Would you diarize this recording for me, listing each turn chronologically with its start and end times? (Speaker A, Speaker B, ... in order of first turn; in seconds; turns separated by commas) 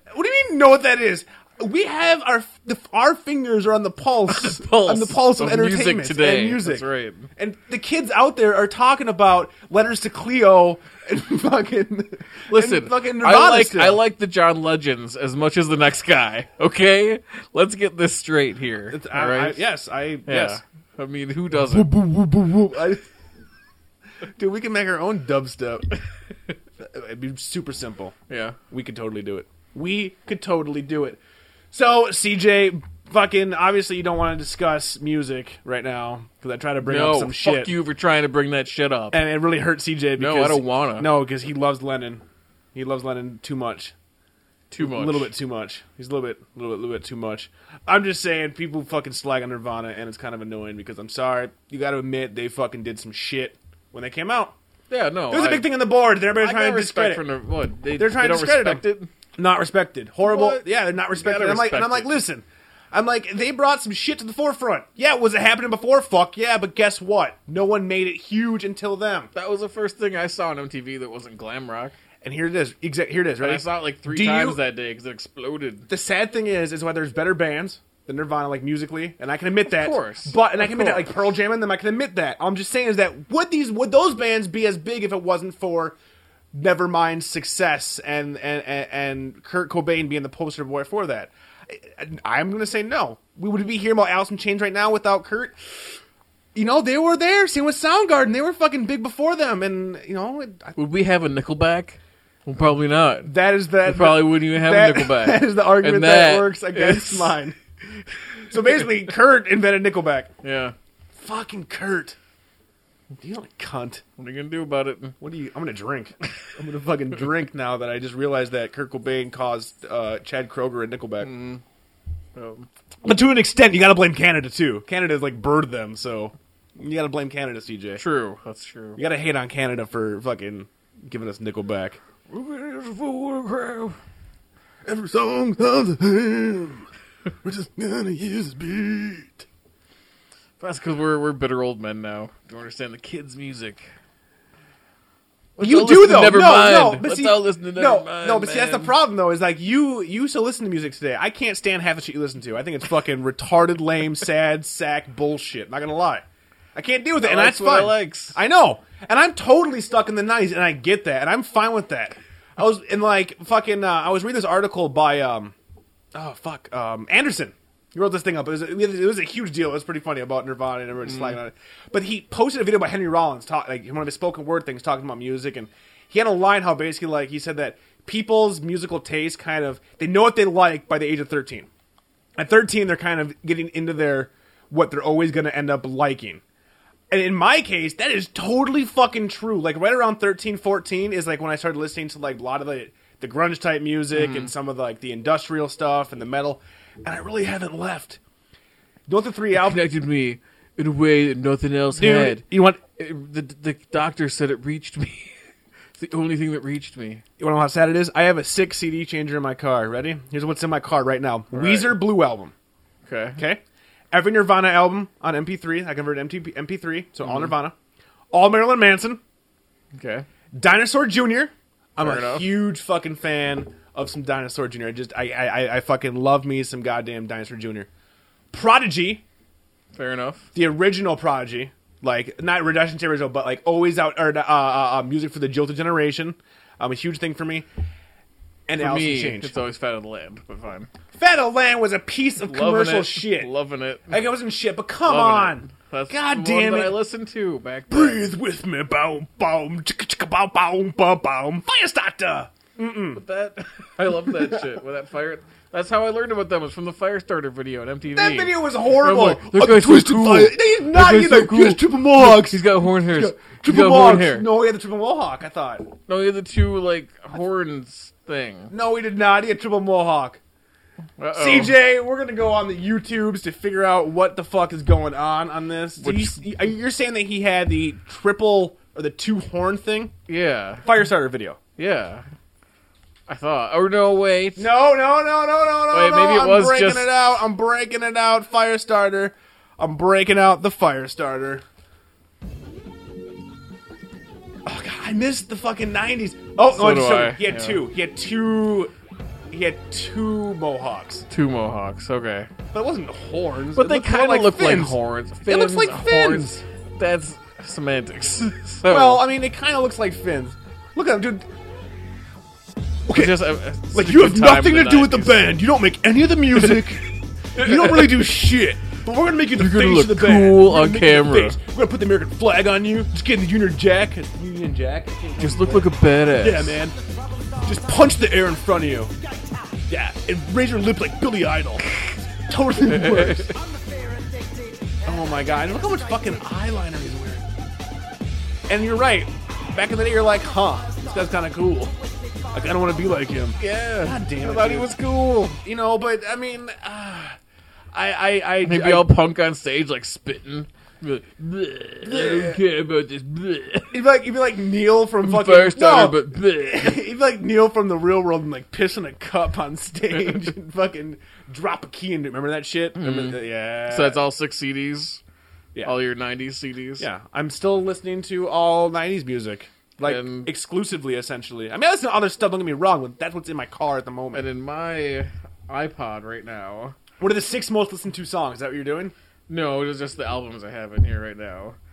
Speaker A: 0.1-14.0, Speaker B: 4.3-7.3, Speaker B: 12.5-19.7, Speaker A: 18.9-20.6, Speaker B: 20.3-21.9, Speaker A: 21.5-23.1, Speaker A: 24.4-25.9, Speaker A: 26.8-28.1, Speaker B: 28.3-28.6, Speaker A: 28.7-31.2, Speaker A: 31.7-37.7, Speaker B: 36.8-39.2, Speaker A: 39.1-43.9, Speaker B: 40.2-41.1, Speaker B: 44.7-45.3, Speaker A: 44.8-54.5, Speaker B: 54.9-59.1, Speaker A: 55.3-57.3, Speaker A: 58.0-58.9, Speaker A: 59.4-69.3, Speaker B: 60.2-62.2, Speaker B: 69.3-72.0, Speaker A: 72.2-74.6, Speaker B: 73.4-75.9, Speaker A: 75.9-86.0, Speaker B: 79.6-81.2, Speaker A: 86.5-95.6, Speaker A: 96.5-100.8, Speaker B: 100.8-107.4, Speaker A: 103.2-107.6, Speaker A: 108.5-110.3, Speaker B: 110.4-110.8, Speaker A: 111.2-112.2, Speaker A: 113.2-114.0, Speaker B: 114.2-115.2, Speaker A: 115.2-121.3, Speaker B: 121.2-121.6, Speaker B: 122.3-122.7, Speaker A: 123.0-128.0, Speaker B: 128.0-129.0, Speaker A: 129.0-132.0, Speaker B: 132.3-134.0, Speaker A: 134.8-136.9, Speaker A: 137.4-139.5, Speaker B: 140.6-143.9, Speaker B: 145.6-149.0, Speaker A: 145.6-165.6, Speaker B: 157.2-158.4, Speaker A: 166.1-181.7, Speaker B: 171.1-171.4, Speaker A: 182.4-186.4, Speaker A: 187.1-198.2, Speaker B: 194.1-194.5, Speaker A: 199.1-199.8, Speaker B: 199.5-202.5, Speaker A: 201.9-202.8, Speaker B: 203.0-205.3, Speaker B: 206.0-207.2, Speaker A: 207.4-212.5, Speaker B: 211.5-212.0, Speaker B: 213.1-213.4, Speaker A: 213.4-217.8, Speaker B: 217.2-217.5, Speaker A: 218.3-219.2, Speaker B: 219.9-220.3, Speaker A: 220.5-227.9, Speaker B: 222.0-222.6, Speaker A: 228.5-229.2, Speaker B: 229.9-230.5, Speaker A: 230.5-237.7, Speaker A: 238.7-239.5, Speaker B: 238.8-240.9, Speaker A: 241.2-243.5, Speaker B: 242.5-244.2, Speaker A: 244.1-247.0, Speaker B: 245.1-248.3, Speaker A: 247.9-253.2, Speaker B: 253.2-264.5, Speaker A: 254.3-254.7, Speaker A: 258.1-265.9, Speaker B: 266.1-268.7, Speaker A: 268.7-270.4, Speaker B: 271.2-271.8, Speaker A: 271.3-280.1, Speaker B: 276.0-276.4, Speaker B: 280.3-280.9, Speaker A: 280.8-281.6, Speaker B: 281.8-282.2, Speaker B: 283.3-284.7, Speaker A: 284.6-291.6, Speaker B: 285.9-287.4, Speaker A: 294.6-298.9, Speaker B: 296.7-297.8, Speaker A: 299.5-301.3, Speaker B: 301.3-302.5, Speaker A: 302.7-306.6, Speaker B: 303.8-309.3, Speaker A: 308.8-311.5, Speaker A: 313.1-327.0, Speaker B: 313.1-315.5, Speaker B: 317.6-318.3, Speaker B: 319.6-321.6, Speaker B: 325.4-326.8, Speaker A: 327.6-329.1, Speaker A: 329.9-332.0, Speaker A: 332.5-333.5, Speaker B: 332.8-333.5, Speaker A: 335.0-337.5, Speaker A: 338.7-341.9, Speaker A: 342.5-345.0, Speaker B: 343.6-345.6, Speaker A: 345.6-347.4, Speaker A: 347.9-349.1, Speaker B: 348.6-354.0, Speaker A: 352.0-352.6, Speaker A: 353.9-364.2, Speaker B: 355.2-357.0, Speaker B: 363.0-365.2, Speaker B: 365.8-367.1, Speaker A: 367.0-374.5, Speaker B: 370.0-370.5, Speaker B: 374.3-377.0, Speaker A: 377.2-379.1, Speaker B: 379.5-381.8